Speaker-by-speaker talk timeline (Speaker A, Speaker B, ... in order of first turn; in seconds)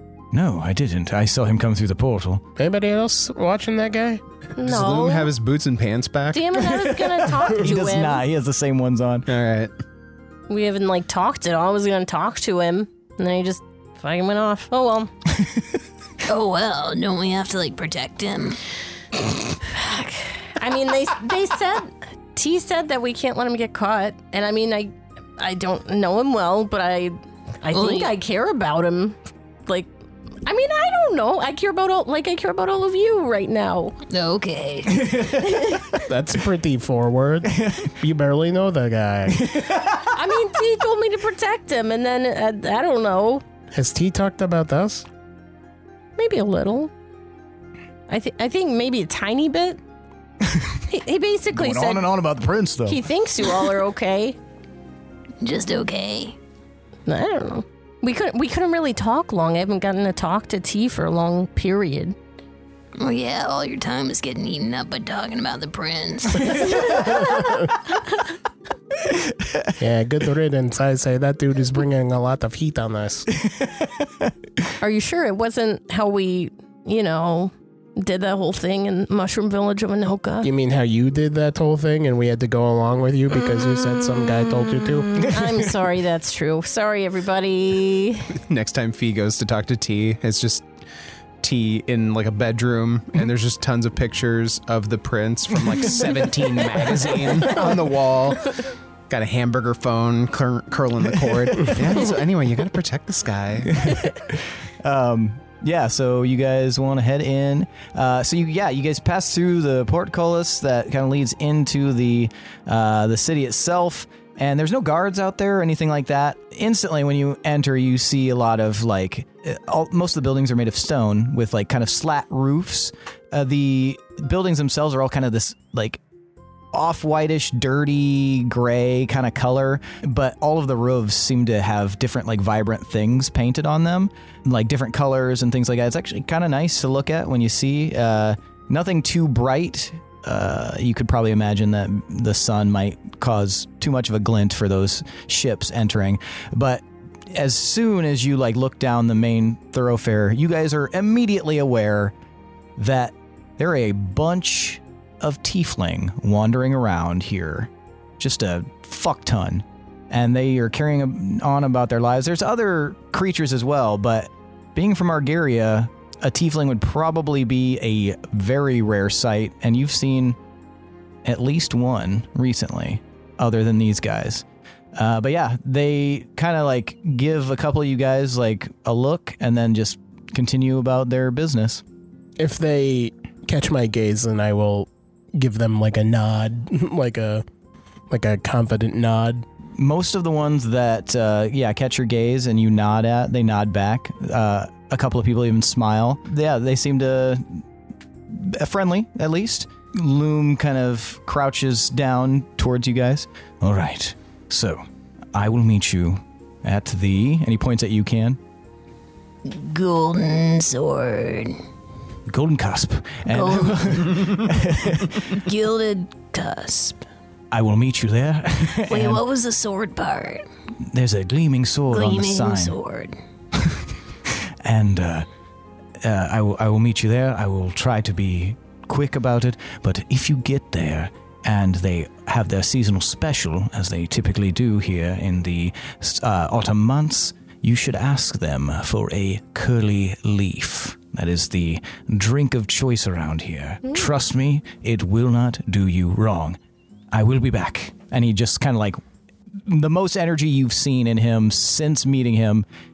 Speaker A: 0.3-2.4, 6.7-9.3, 34.9-36.0, 37.5-37.9, 39.3-40.1, 50.4-50.8, 51.5-53.0, 66.7-67.3, 69.1-69.7, 73.4-74.0, 103.7-126.0, 126.7-152.1, 152.8-170.4, 171.2-174.4, 174.9-181.8, 189.8-197.6, 198.3-204.8, 205.3-208.4, 212.3-215.3, 217.5-219.2, 220.9-222.7, 223.6-225.3, 226.0-246.6, 247.1-249.0, 249.6-252.6
Speaker B: 2.5-4.2, 36.1-39.4, 43.7-45.0, 69.8-73.3, 80.4-85.3, 182.4-187.4, 188.1-189.4
Speaker C: 4.6-5.3, 6.3-8.2, 10.5-15.1, 19.7-29.9, 30.4-34.0, 35.4-36.0, 40.1-43.4, 46.2-46.9, 48.1-49.8, 50.9-52.0, 52.9-54.4, 57.0-62.2, 74.8-80.5, 85.2-88.3
Speaker D: 4.6-6.5, 9.3-9.7, 88.4-90.7, 91.4-103.9
Speaker E: 16.2-18.6, 27.7-28.1, 34.1-35.0, 55.4-56.4, 63.0-67.0, 209.4-211.6, 213.2-214.2, 215.3-217.0, 218.9-220.4, 221.9-223.2